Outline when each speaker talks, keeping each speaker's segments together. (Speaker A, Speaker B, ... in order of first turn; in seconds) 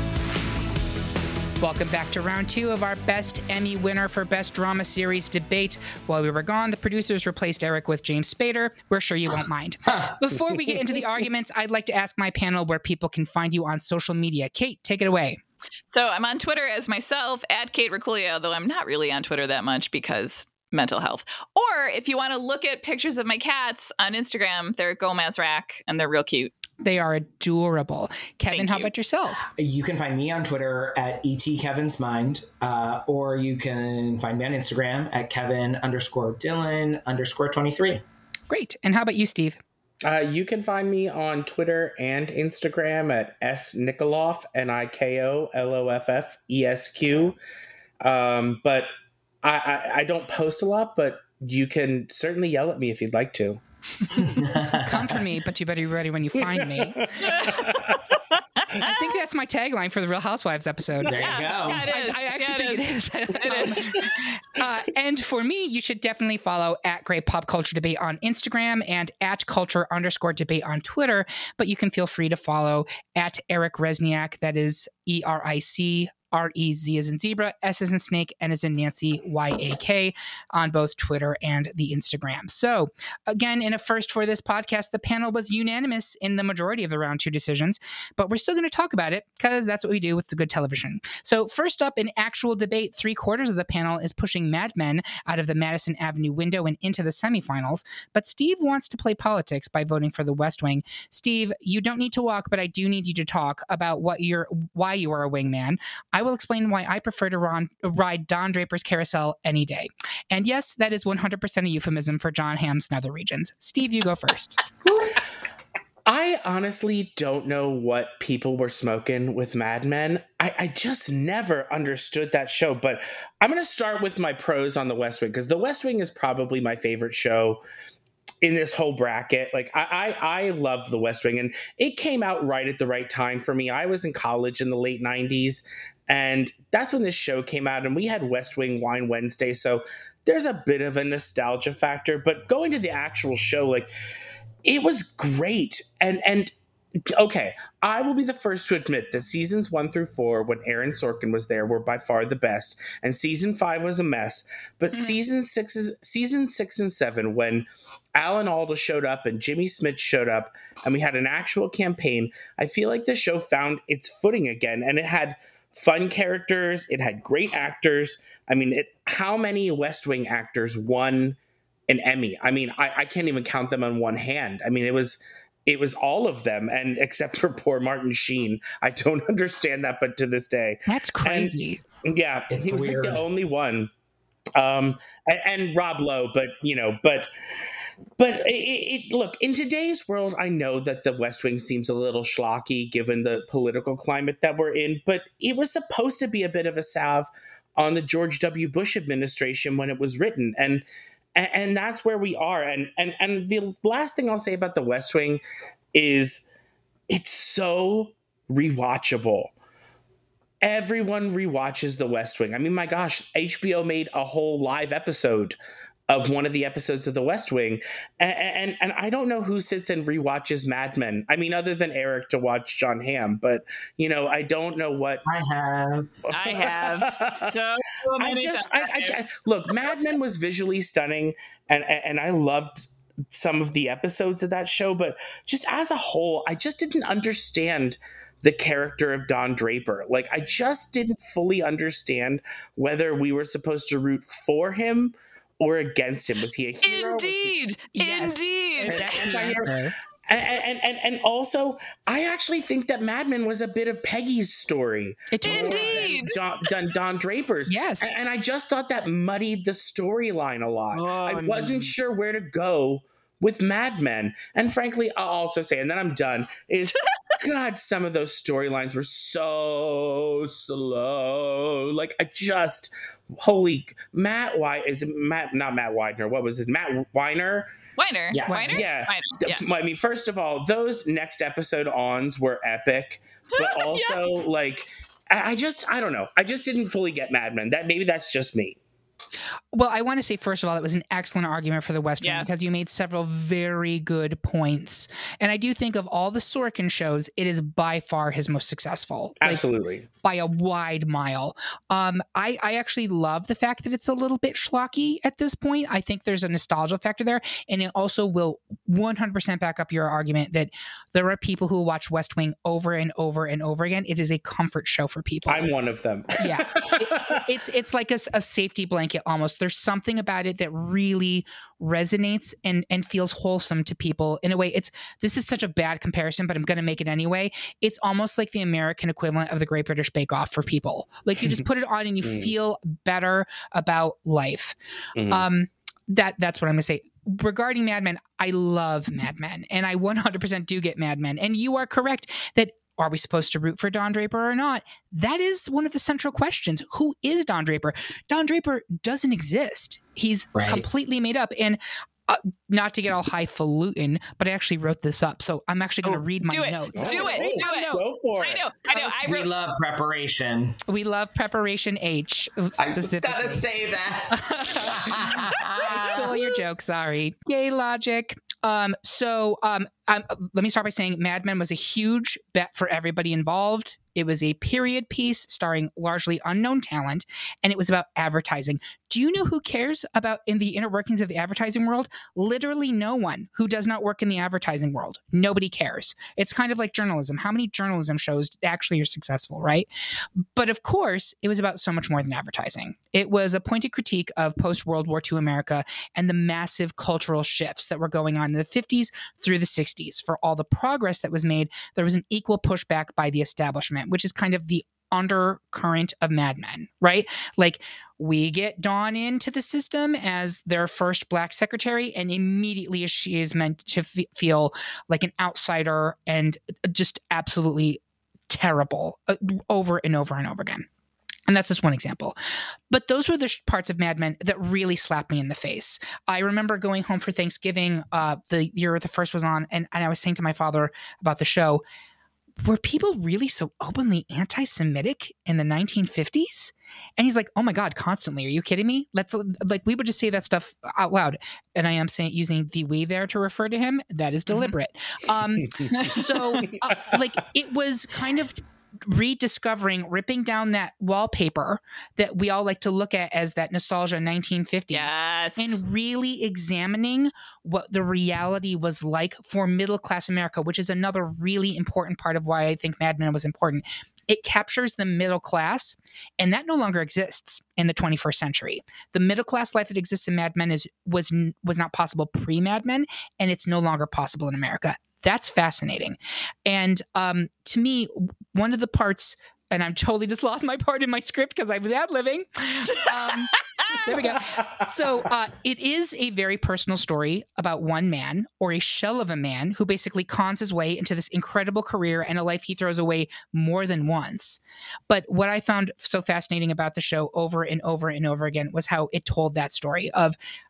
Speaker A: 1.6-15.4, 26.8-29.4, 38.5-39.6, 54.7-57.5, 58.8-61.2, 61.8-114.6, 180.9-181.8, 247.9-249.9, 255.3-256.3, 257.7-258.2, 278.4-278.8, 289.7-299.6, 300.2-315.7, 316.4-334.8, 335.3-358.0, 360.9-363.6, 364.3-420.9, 421.5-422.4, 422.9-431.8, 432.6-500.4
Speaker B: 15.9-26.5, 28.5-28.9, 57.2-57.6, 58.3-58.9, 61.2-63.9, 226.3-229.2, 246.8-249.1, 255.4-256.4, 278.0-279.6, 283.5-284.4, 292.2-292.5, 356.0-359.5, 365.6-366.3, 445.9-446.6, 454.9-455.8, 482.9-484.0
Speaker C: 29.5-38.0, 54.1-55.2, 61.1-61.9, 182.5-183.2, 225.2-226.1, 248.8-249.7, 260.9-261.9, 278.3-278.9, 350.5-350.8, 359.2-360.8, 362.8-366.3
Speaker D: 40.0-47.4, 48.0-48.9, 49.4-53.6, 56.4-58.0, 116.0-127.6, 128.4-143.9, 144.6-146.5, 147.1-183.9, 184.6-187.3, 188.2-205.4, 205.9-206.5, 207.1-209.5, 210.6-215.6, 216.1-225.2, 226.3-227.5, 228.2-247.6, 249.2-249.7, 250.3-277.7, 278.7-288.8, 299.4-300.1, 315.5-317.4, 332.2-332.5, 335.1-335.5, 356.9-358.6